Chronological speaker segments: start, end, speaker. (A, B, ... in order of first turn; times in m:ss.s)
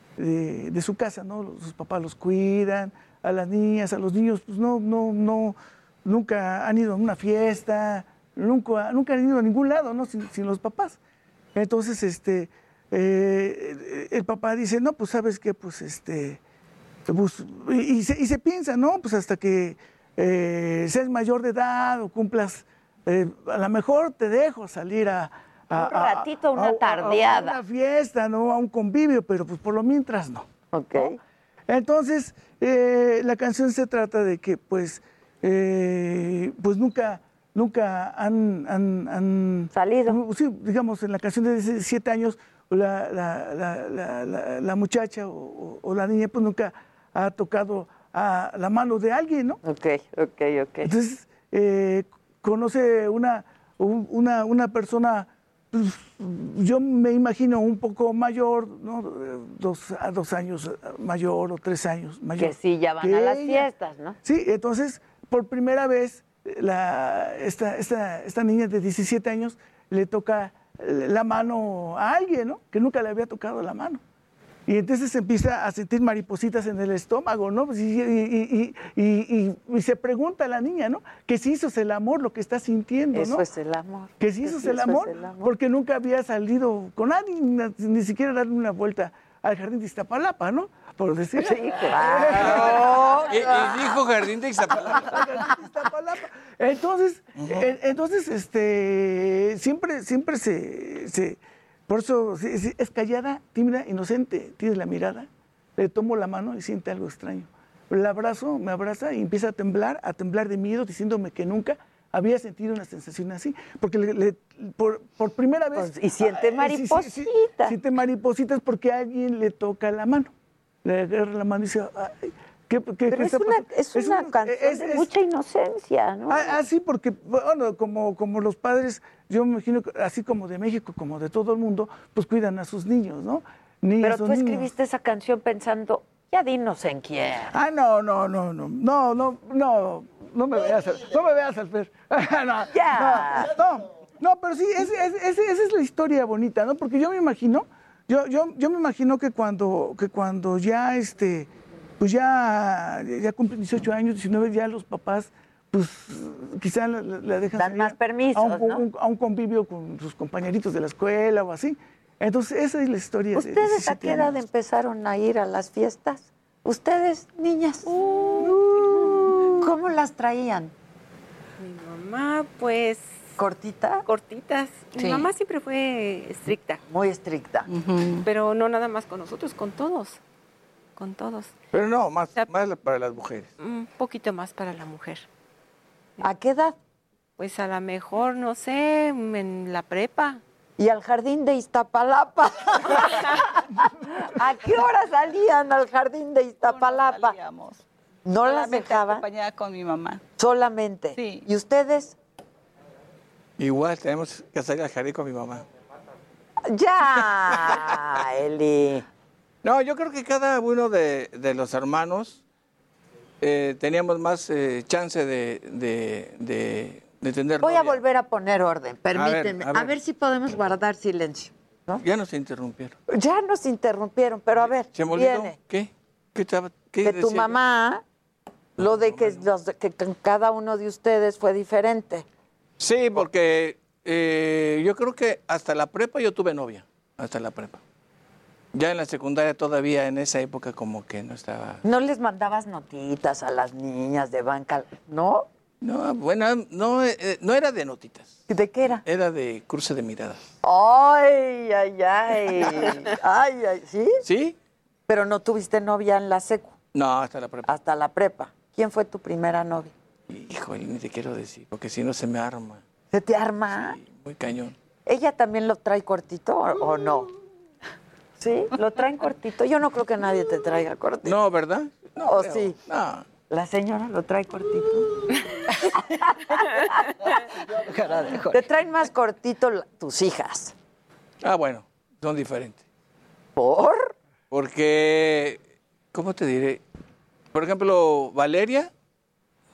0:00.2-0:11.0 A
0:11.5-0:16.4 A
0:17.1-0:31.1 A
0:25.7-0:27.6 B
0:30.7-0:31.2 B
0:31.7-0:49.6 A
0:39.7-0:40.2 B
0:49.6-0:50.9 B
0:50.8-1:03.7 A
1:02.4-1:04.2 B
1:04.2-1:14.0 A
1:14.7-1:23.4 A
1:23.1-1:25.5 B
1:24.2-1:33.0 A
1:31.4-1:34.0 B
1:32.4-1:35.2 C
1:34.7-2:00.3 A
1:37.4-1:37.6 C
1:55.8-1:57.8 B
2:00.8-2:05.1 A
2:03.1-2:06.6 B
2:06.3-2:14.7 A
2:14.0-2:17.5 B
2:17.5-2:31.5 A
2:22.7-2:23.5 B
2:32.0-2:44.4 A
2:37.6-2:38.8 B
2:43.3-2:50.7 B
2:47.9-2:49.0 D
2:48.4-2:48.9 A
2:51.6-2:53.3 D
2:53.4-2:54.0 B
2:54.0-2:56.8 D
2:55.0-2:55.3 E
2:56.9-2:57.7 B
2:57.7-2:58.2 E
2:58.2-3:00.2 D
3:01.0-3:01.5 D
3:01.7-3:03.5 C
3:03.6-3:05.2 D
3:06.2-3:06.8 B
3:07.4-3:10.4 D
3:10.8-3:17.4 B
3:13.0-3:13.3 D
3:16.7-3:17.8 E
3:18.2-3:19.2 B
3:18.4-3:20.2 E
3:20.4-3:22.2 B
3:21.2-3:21.4 E
3:23.6-3:25.6 C
3:26.6-3:29.0 B
3:27.2-3:27.9 C
3:29.6-3:32.4 C
3:33.4-3:38.0 C
3:37.6-3:42.0 B
3:39.1-3:39.9 C
3:42.0-3:43.0 C
3:43.1-3:45.6 B
3:44.5-3:47.6 C
3:47.0-3:48.0 B
3:48.8-3:49.4 C
3:48.8-3:52.2 B
3:52.8-3:57.8 C
3:58.7-4:01.8 C
4:01.8-4:05.5 B
4:05.8-4:08.4 C
4:08.5-4:09.0 B
4:09.0-4:10.4 C
4:10.6-4:14.2 B
4:14.2-4:14.6 C
4:15.1-4:16.7 B
4:16.9-4:17.7 C
4:17.6-4:19.9 B
4:20.3-4:22.8 C
4:23.1-4:24.0 B
4:23.7-4:24.7 C
4:25.0-4:27.3 B
4:28.4-4:31.4 B
4:31.2-4:33.2 C
4:32.2-4:32.8 B
4:33.5-4:35.1 B
4:35.9-4:37.1 B
4:38.4-4:40.7 B
4:41.4-4:42.8 C
4:43.6-4:44.1 B
4:44.5-4:45.6 C
4:46.1-4:46.8 C
4:47.5-4:48.9 C